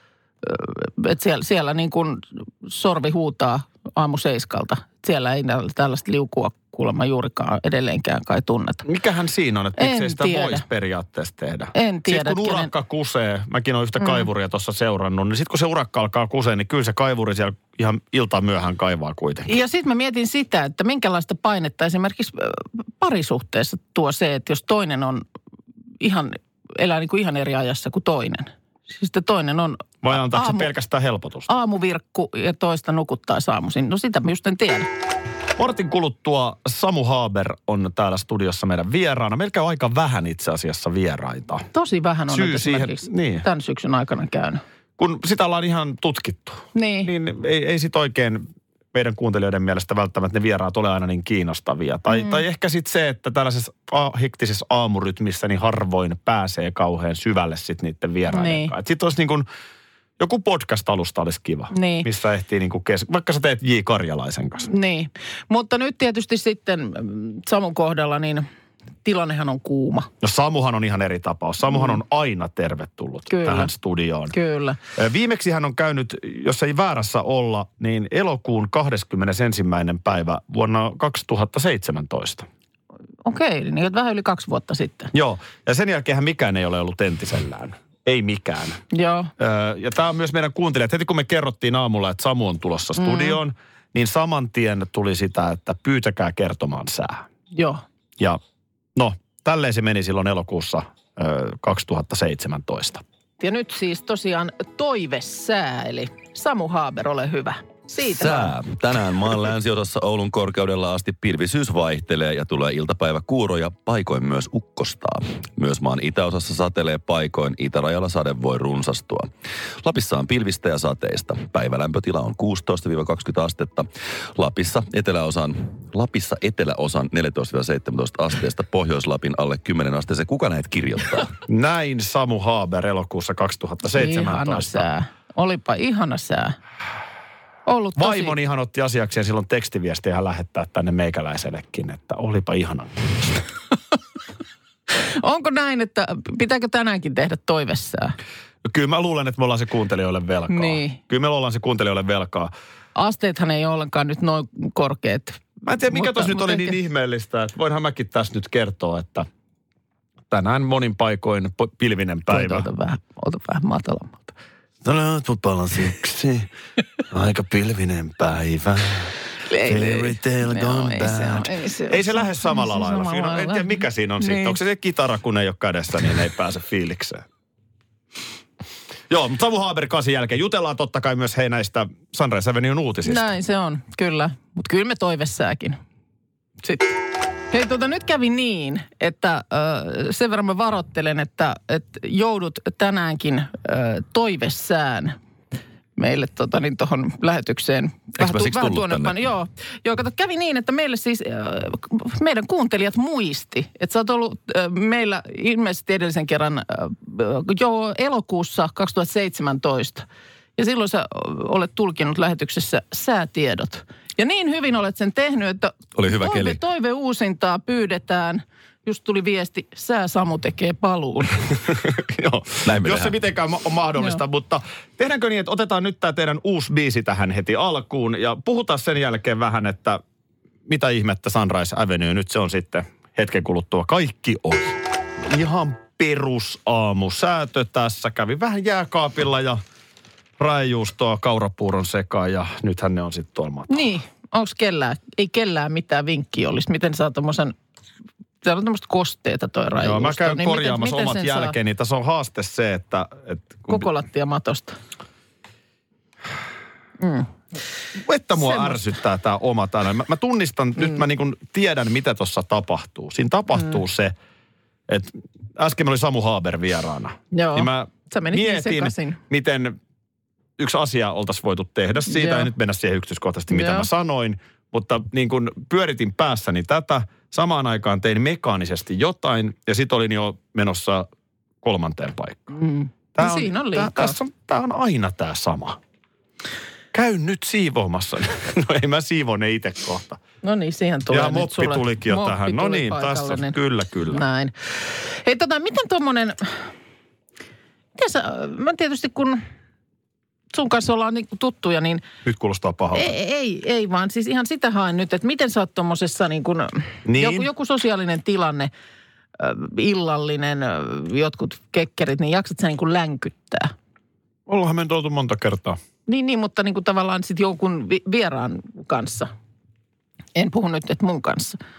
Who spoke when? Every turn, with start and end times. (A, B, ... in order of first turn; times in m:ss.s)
0:00.4-0:08.8 A
0:08.8-0:19.5 B
0:09.8-0:10.6 A
0:11.7-0:12.7 A
0:14.0-0:14.3 A
0:19.5-0:25.2 A
0:26.0-0:30.7 A
0:30.0-0:31.5 B
0:31.5-0:34.9 A
0:35.6-0:41.6 B
0:41.7-0:44.6 A
0:42.3-0:43.4 B
0:45.0-0:59.5 B
0:46.7-0:47.1 A
0:52.1-0:52.4 A
0:58.3-0:58.7 A
1:00.2-1:04.7 B
1:01.7-1:02.1 A
1:04.7-1:08.5 A
1:09.0-1:10.1 A
1:10.2-1:14.3 B
1:13.3-1:13.7 A
1:14.3-1:14.8 A
1:15.0-1:22.5 B
1:23.2-1:25.1 A
1:25.1-1:28.8 B
1:28.9-1:29.3 A
1:29.4-1:37.3 B
1:33.0-1:33.4 A
1:37.5-1:37.8 A
1:39.0-1:43.0 B
1:43.4-1:48.5 A
1:48.0-1:59.3 C
1:59.8-2:11.3 C
2:11.5-2:14.9 B
2:13.9-2:16.6 A
2:17.6-2:18.4 A
2:18.0-2:23.2 B
2:24.9-2:28.2 A
2:28.6-2:32.5 B
2:30.5-2:31.0 A
2:33.0-2:36.8 A
2:35.7-2:39.3 B
2:40.3-2:42.7 B
2:42.3-2:44.3 A
2:44.8-2:46.5 B
2:47.1-2:57.2 B
2:49.4-2:54.6 A
2:59.1-3:03.3 B
3:03.0-3:05.8 A
3:06.6-3:07.0 A
3:07.5-3:15.1 A
3:16.0-3:30.0 A
3:18.2-3:19.2 C
3:30.6-3:41.4 A
3:36.0-3:36.6 C
3:41.7-3:50.0 B
3:42.7-3:43.1 C
3:50.7-3:59.6 B
4:00.4-4:04.0 B
4:03.7-4:07.6 A
4:08.4-4:11.6 A
4:09.8-4:13.9 B
4:13.7-4:14.8 A
4:17.0-4:17.3 A
4:18.0-4:24.1 B
4:18.4-4:18.9 A
4:24.9-4:29.8 B
4:27.3-4:29.2 A
4:30.6-4:41.1 B
4:32.1-4:32.5 A
4:33.5-4:33.9 A
4:41.6-4:42.6 B
4:42.5-4:44.2 A
4:43.2-4:45.8 B
4:46.9-4:50.2 B
4:50.4-4:53.6 A
4:51.1-4:54.2 B
4:54.1-4:56.6 A
4:58.0-4:59.4 A
5:00.5-5:02.0 A
5:02.2-5:03.1 B
5:02.9-5:08.7 A
5:07.0-5:07.5 B
5:09.4-5:13.7 A
5:14.5-5:15.8 B
5:16.1-5:19.3 A
5:20.4-5:21.6 A